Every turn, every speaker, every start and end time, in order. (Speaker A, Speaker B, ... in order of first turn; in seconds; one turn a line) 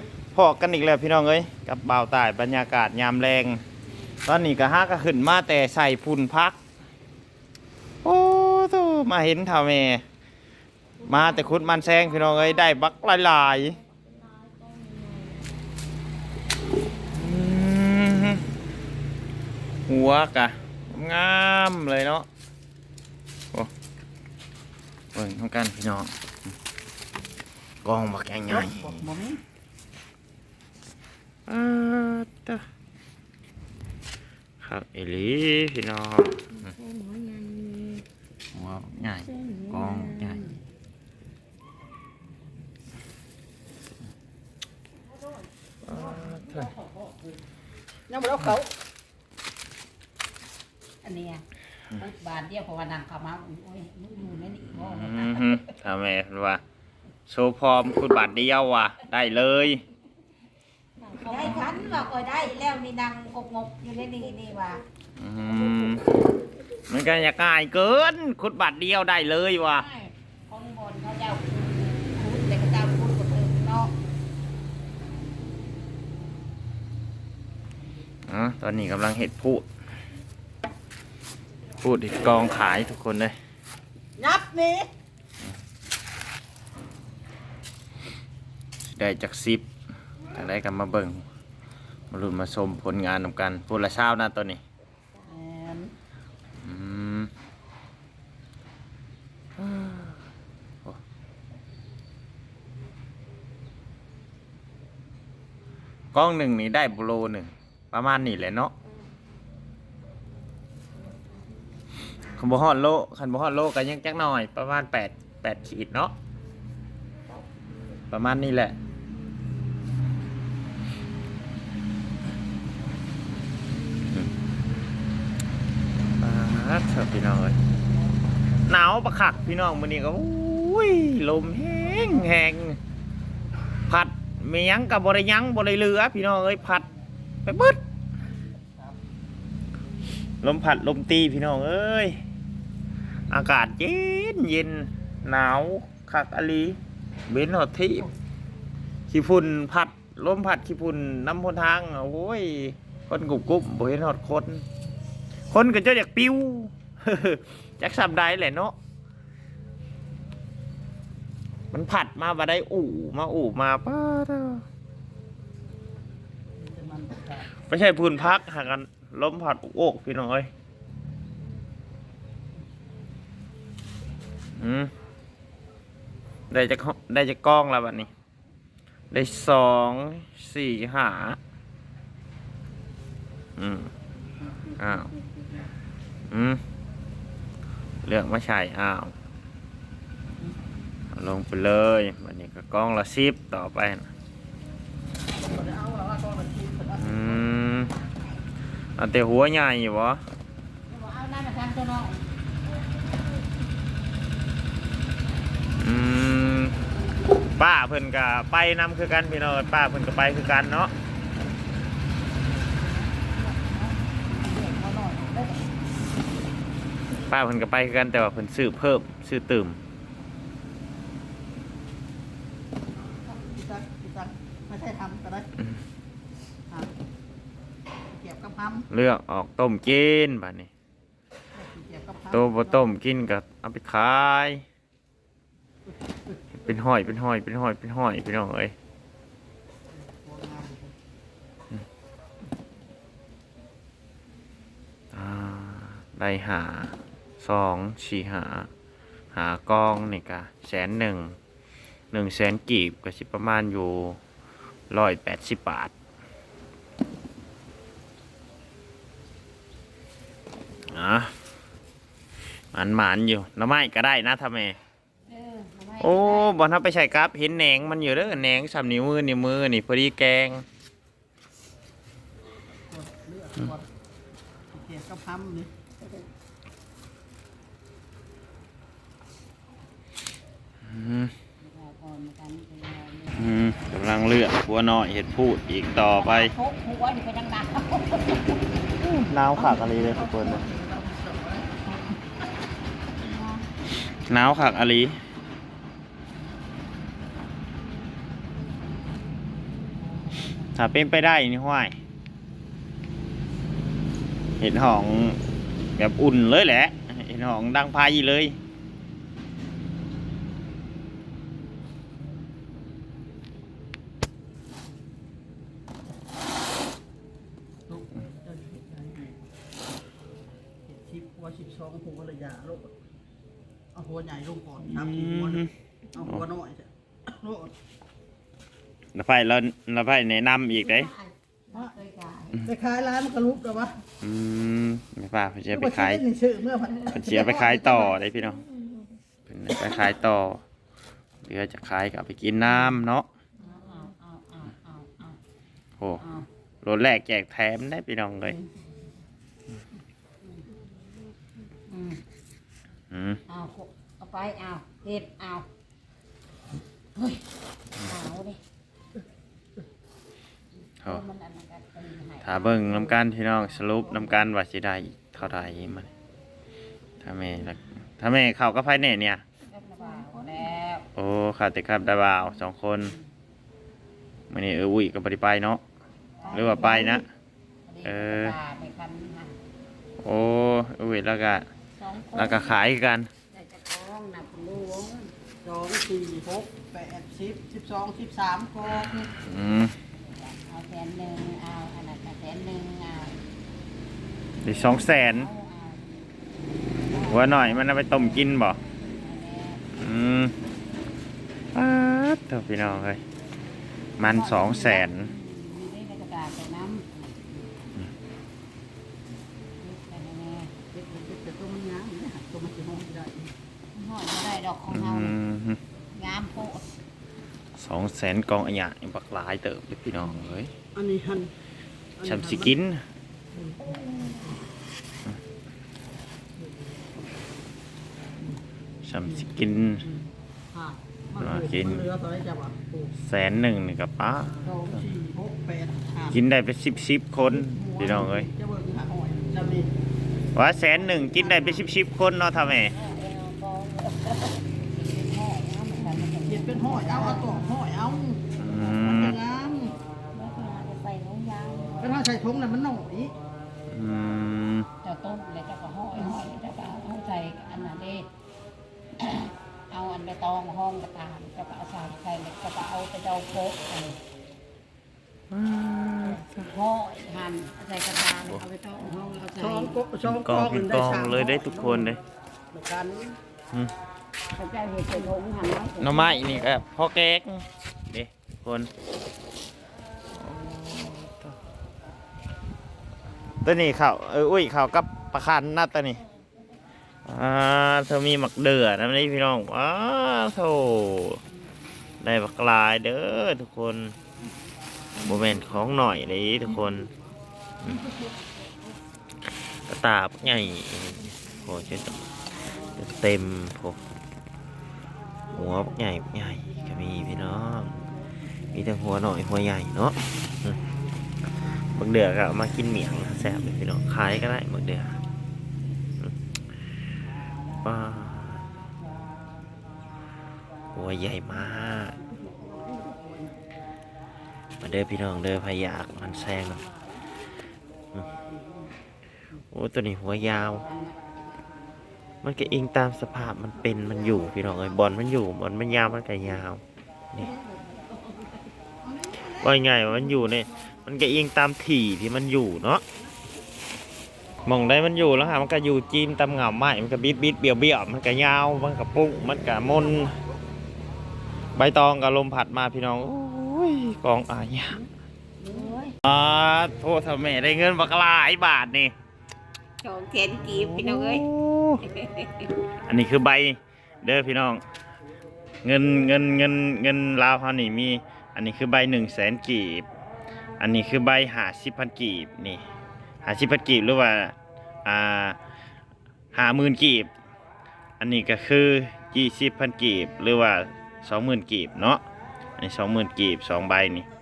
Speaker A: 0.3-3.6
Speaker A: 4.2-6.6
Speaker A: 8.0-10.0
Speaker A: 11.0-13.8
Speaker B: 14.4-15.3
Speaker A: 17.1-18.5
Speaker A: 19.9-22.3
Speaker A: 25.1-26.1
Speaker A: 27.8-29.1
Speaker C: 28.5-29.4
Speaker A: 31.5-32.6
Speaker A: 34.6-36.7
Speaker B: 36.9-37.8
Speaker A: 38.5-40.5
Speaker A: 45.9-46.7
Speaker C: 48.1-48.7
Speaker B: 51.0-51.4
Speaker B: 52.0-55.6
Speaker A: 54.7-56.6
Speaker A: 57.3-59.8
Speaker B: 61.0-64.8
Speaker A: 61.3-62.1
Speaker A: 65.2-66.2
Speaker A: 66.9-69.9
Speaker B: 69.7-73.9
Speaker A: 78.3-79.7
Speaker A: 81.8-83.3
Speaker C: 84.2-84.9
Speaker A: 88.9-89.7
Speaker A: 90.3-91.2
Speaker A: 92.1-94.6
Speaker C: 95.2-95.9
Speaker A: 96.6-97.3
Speaker A: 99.6-100.2
Speaker A: 106.1-108.7
Speaker A: 112.3-116.1
Speaker A: 118.1-118.8
Speaker A: 126.2-127.6
Speaker A: 128.6-132.8
Speaker A: 133.9-136.9
Speaker A: 137.4-137.8
Speaker A: 140.4-142.2
Speaker A: 143.3-148.1
Speaker A: 149.1-154.6
Speaker A: 155.5-158.7
Speaker A: 161.7-164.6
Speaker C: 166.6-167.5
Speaker A: 167.5-170.5
Speaker A: 174.6-174.9
Speaker A: 176.5-178.1
Speaker A: 179.1-181.4
Speaker A: 183.6-183.9
Speaker A: 184.7-185.1
Speaker A: 186.3-186.6
Speaker A: 188.0-189.1
Speaker A: 191.1-194.1
Speaker C: 195.4-197.4
Speaker A: 196.9-197.9
Speaker A: 199.0-200.2
Speaker B: 200.9-202.2
Speaker A: 205.8-206.8
Speaker A: 207.4-210.9
Speaker C: 213.2-215.6
Speaker A: 217.3-219.8
Speaker C: 223.2-225.5
Speaker C: 228.1-228.9
Speaker A: 228.9-230.7
Speaker C: 231.6-232.8
Speaker A: 232.3-234.6
Speaker A: 236.6-238.7
Speaker C: 239.9-240.9
Speaker A: 245.1-248.7
Speaker A: 249.3-251.4
Speaker A: 252.1-254.2
Speaker A: 254.9-255.9
Speaker A: 260.9-261.3
Speaker A: 262.7-264.8
Speaker B: 265.3-266.5
Speaker A: 266.0-270.6
Speaker C: 272.9-273.9
Speaker C: 274.7-275.7
Speaker A: 280.9-281.3
Speaker B: 281.6-283.4
Speaker A: 283.4-286.5
Speaker B: 286.1-288.8
Speaker A: 288.9-290.7
Speaker C: 289.6-292.2
Speaker B: 293.2-293.6
Speaker A: 294.1-295.2
Speaker A: 300.7-301.9
Speaker A: 304.6-305.4
Speaker A: 306.0-308.6
Speaker C: 317.9-319.4
Speaker C: 320.9-322.9
Speaker C: 323.9-325.6
Speaker A: 324.8-325.7
Speaker C: 326.1-327.7
Speaker A: 329.1-331.1
Speaker B: 330.7-332.7
Speaker C: 332.6-334.0
Speaker A: 334.2-336.3
Speaker C: 335.7-338.1
Speaker A: 337.1-338.6
Speaker A: 339.5-340.6
Speaker A: 341.4-343.3
Speaker B: 343.6-345.4
Speaker B: 346.2-346.5
Speaker A: 346.8-348.6
Speaker B: 351.9-352.2
Speaker A: 353.1-353.4
Speaker B: 353.5-355.7
Speaker B: 357.1-357.4
Speaker B: 358.0-358.6
Speaker B: 361.1-363.2
Speaker A: 362.4-366.1
Speaker A: 367.2-369.4
Speaker B: 369.7-371.1
Speaker A: 371.2-373.1
Speaker A: 374.5-375.8
Speaker B: 376.4-377.2
Speaker A: 376.5-377.3
Speaker C: 376.9-377.2
Speaker B: 377.9-379.6
Speaker A: 378.0-378.6
Speaker A: 380.2-381.7
Speaker B: 382.0-382.7
Speaker A: 382.3-383.3
Speaker B: 383.5-385.3
Speaker C: 385.6-389.3
Speaker A: 389.0-389.9
Speaker B: 389.9-393.4
Speaker A: 394.6-395.5
Speaker B: 394.9-396.2
Speaker B: 397.0-397.9
Speaker A: 397.2-398.8
Speaker B: 399.1-399.8
Speaker A: 400.0-400.5
Speaker A: 401.7-403.2
Speaker A: 404.2-405.3
Speaker B: 404.2-407.1
Speaker B: 409.8-410.7
Speaker C: 410.9-413.5
Speaker B: 413.9-415.4
Speaker A: 414.9-415.8
Speaker B: 416.1-416.9
Speaker A: 417.8-420.7
Speaker C: 421.0-421.5
Speaker C: 422.2-422.8
Speaker A: 422.2-423.0
Speaker C: 423.5-424.6
Speaker A: 429.0-430.1
Speaker C: 430.7-433.1
Speaker A: 431.4-432.1
Speaker A: 433.2-435.0
Speaker C: 434.6-436.4
Speaker A: 436.3-438.5
Speaker C: 437.4-439.9
Speaker A: 440.6-442.9
Speaker B: 441.6-441.8
Speaker B: 442.9-447.8
Speaker C: 446.4-448.4
Speaker A: 448.6-449.4
Speaker C: 449.0-450.0
Speaker B: 450.3-452.2
Speaker C: 452.0-453.3
Speaker A: 453.9-454.9
Speaker B: 455.0-458.3
Speaker B: 459.2-464.2
Speaker A: 465.5-466.7
Speaker B: 466.5-470.0
Speaker C: 469.6-472.2
Speaker A: 470.2-472.2
Speaker C: 472.7-473.4
Speaker B: 474.5-476.8
Speaker A: 476.0-478.9
Speaker A: 480.3-481.6
Speaker A: 483.6-486.2
Speaker A: 487.2-491.4
Speaker A: 492.2-494.2
Speaker A: 495.2-497.1
Speaker A: 499.9-504.0
Speaker A: 505.5-508.1
Speaker A: 508.7-510.8
Speaker A: 511.9-515.2
Speaker A: 517.8-518.7
Speaker A: 520.9-522.2
Speaker C: 522.2-523.6
Speaker A: 524.8-526.9
Speaker A: 529.7-530.9
Speaker B: 530.9-531.2
Speaker A: 532.4-537.5
Speaker C: 539.1-539.7
Speaker A: 539.4-543.0
Speaker A: 544.6-550.4
Speaker A: 551.8-555.0
Speaker B: 555.6-556.1
Speaker A: 556.2-559.1
Speaker B: 560.0-561.5
Speaker A: 560.6-562.0
Speaker B: 562.0-562.7
Speaker A: 563.1-564.8
Speaker A: 565.9-570.1
Speaker A: 570.8-572.8
Speaker A: 573.4-575.6
Speaker A: 576.5-577.3
Speaker A: 578.2-582.2
Speaker A: 582.8-584.2